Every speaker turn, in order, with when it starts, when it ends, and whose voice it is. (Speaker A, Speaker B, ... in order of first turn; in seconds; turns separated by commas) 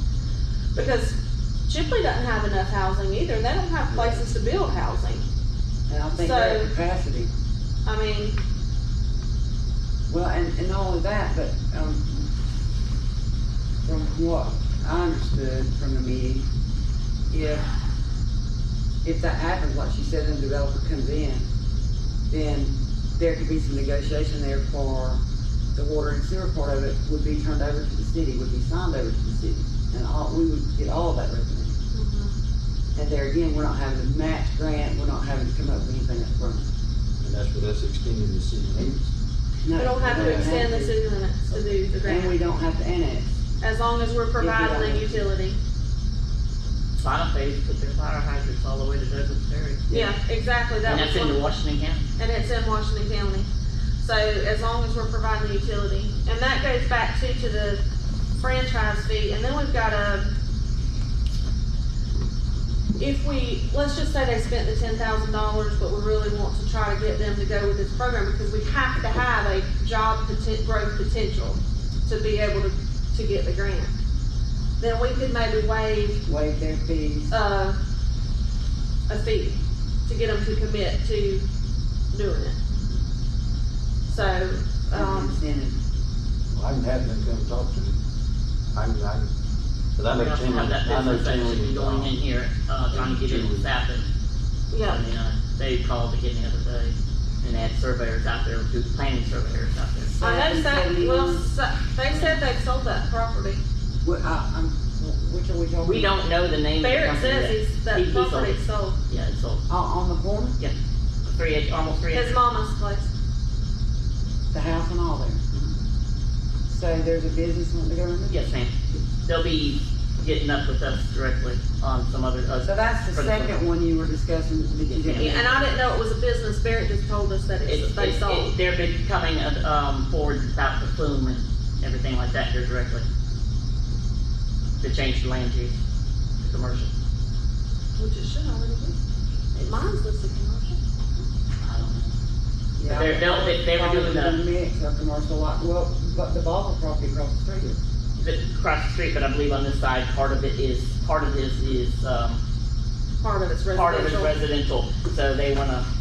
Speaker A: 0.8-5.2, Speaker B: 5.9-7.3, Speaker A: 6.2-6.7, Speaker A: 7.8-8.4, Speaker B: 10.1-12.3, Speaker B: 13.8-16.5, Speaker B: 17.3-17.7, Speaker B: 19.0-21.5, Speaker B: 22.3-25.2, Speaker B: 25.7-31.7, Speaker A: 31.9-32.4, Speaker B: 33.0-36.7, Speaker C: 37.2-39.1, Speaker B: 39.6-41.0, Speaker A: 39.8-42.4, Speaker C: 40.0-40.6, Speaker B: 42.0-43.4, Speaker A: 43.6-45.6, Speaker B: 44.4-45.3, Speaker D: 47.0-50.1, Speaker A: 49.9-51.5, Speaker D: 50.8-52.0, Speaker A: 52.2-53.5, Speaker A: 54.0-57.8, Speaker A: 58.4-60.3, Speaker A: 63.0-73.9, Speaker A: 74.8-76.2, Speaker B: 76.2-77.3, Speaker A: 77.3-77.8, Speaker A: 79.1-81.5, Speaker A: 82.1-82.6, Speaker A: 84.1-85.4, Speaker B: 84.9-85.8, Speaker C: 86.5-88.0, Speaker C: 88.7-89.3, Speaker C: 90.0-92.1, Speaker D: 90.2-94.1, Speaker C: 92.9-93.7, Speaker A: 94.7-95.0, Speaker D: 94.8-100.2, Speaker B: 100.2-101.5, Speaker A: 100.2-103.6, Speaker B: 102.1-102.4, Speaker B: 104.0-106.1, Speaker D: 105.8-109.6, Speaker A: 106.8-109.0, Speaker B: 109.7-110.6, Speaker D: 110.6-112.3, Speaker A: 112.1-113.1, Speaker B: 114.5-115.7, Speaker B: 116.7-118.5, Speaker D: 118.3-118.7, Speaker D: 119.2-123.6, Speaker B: 122.6-125.6, Speaker D: 124.9-125.5, Speaker A: 125.1-128.5, Speaker D: 127.7-133.1, Speaker D: 134.8-135.8, Speaker D: 136.4-136.9, Speaker A: 138.0-139.0, Speaker A: 139.6-140.8, Speaker D: 141.6-142.2, Speaker B: 142.8-147.8, Speaker D: 142.8-144.4, Speaker D: 148.2-152.4, Speaker A: 153.2-154.4, Speaker D: 153.7-155.9